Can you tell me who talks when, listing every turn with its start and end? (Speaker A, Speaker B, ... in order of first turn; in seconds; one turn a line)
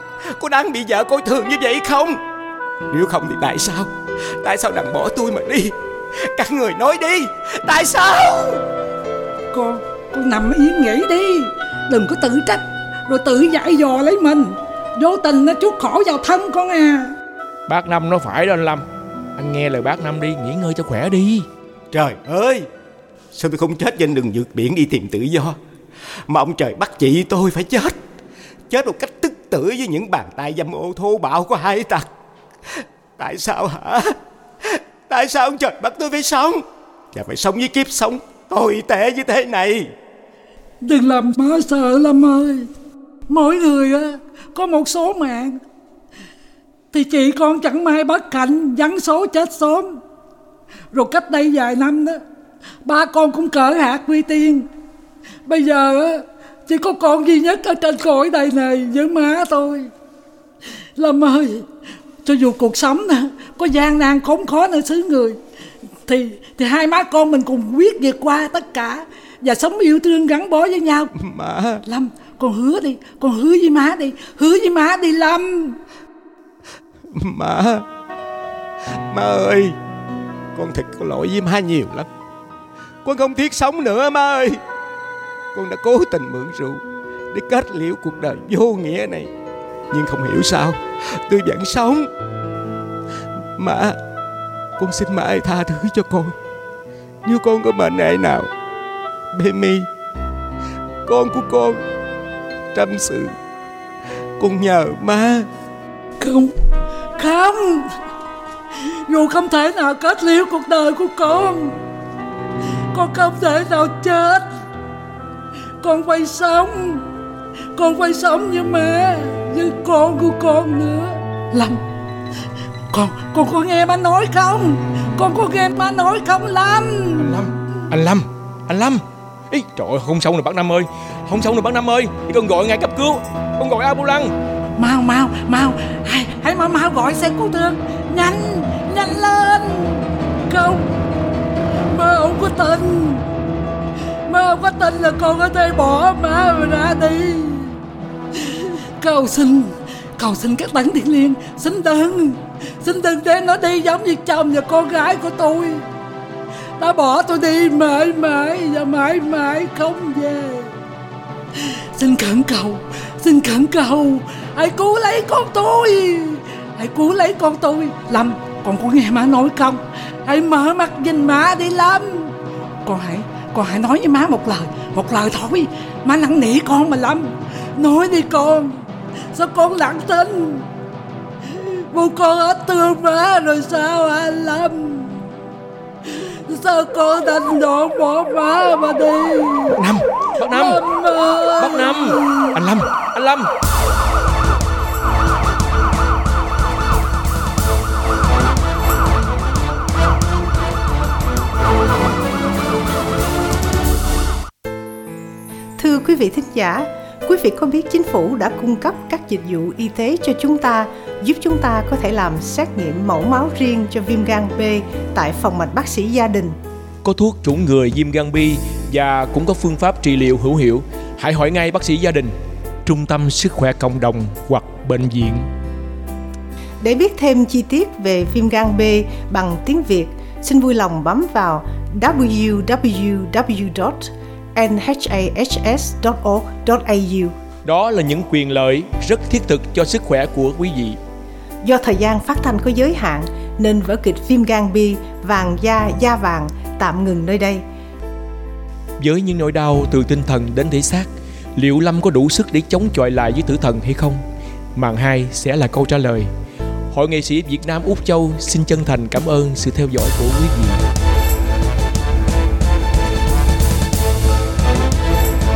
Speaker A: 0.3-2.2
Speaker A: 2.9-8.6
Speaker B: 9.5-17.1
Speaker C: 17.7-18.9
Speaker C: 19.4-21.5
Speaker A: 21.9-22.7
Speaker A: 23.3-25.6
Speaker A: 26.3-28.0
Speaker A: 28.7-32.1
Speaker A: 32.8-39.9
Speaker B: 40.8-42.7
Speaker B: 43.3-45.6
Speaker B: 46.9-50.0
Speaker B: 50.9-52.2
Speaker B: 52.9-54.7
Speaker B: 55.5-59.9
Speaker B: 61.0-61.7
Speaker B: 62.2-65.4
Speaker B: 66.1-71.1
Speaker A: 71.2-71.8
Speaker B: 71.8-75.8
Speaker A: 77.1-77.8
Speaker A: 79.1-79.8
Speaker A: 80.5-82.1
Speaker A: 83.0-84.6
Speaker A: 85.5-89.3
Speaker A: 89.9-92.1
Speaker A: 93.6-94.0
Speaker A: 94.8-96.3
Speaker A: 97.2-98.5
Speaker A: 99.3-99.9
Speaker A: 101.1-101.8
Speaker A: 102.7-103.3
Speaker A: 104.4-105.5
Speaker B: 106.2-106.5
Speaker B: 107.2-107.9
Speaker B: 109.1-111.8
Speaker B: 112.9-114.5
Speaker B: 115.8-117.1
Speaker B: 117.8-121.8
Speaker B: 122.9-127.5
Speaker C: 127.2-134.3
Speaker B: 134.8-140.9
Speaker B: 141.9-143.2
Speaker B: 144.3-147.8
Speaker B: 148.3-155.9
Speaker B: 156.8-160.7
Speaker B: 161.6-180.7
Speaker B: 181.5-185.2
Speaker B: 186.1-189.8
Speaker C: 189.7-190.8
Speaker B: 190.5-192.6
Speaker C: 191.6-193.5
Speaker D: 205.8-216.6
Speaker C: 217.0-222.3
Speaker C: 222.9-225.5
Speaker D: 226.8-237.3
Speaker C: 237.7-241.0
Speaker D: 241.6-247.6
Speaker C: 249.0-254.2
Speaker C: 254.8-256.3
Speaker C: 256.9-260.8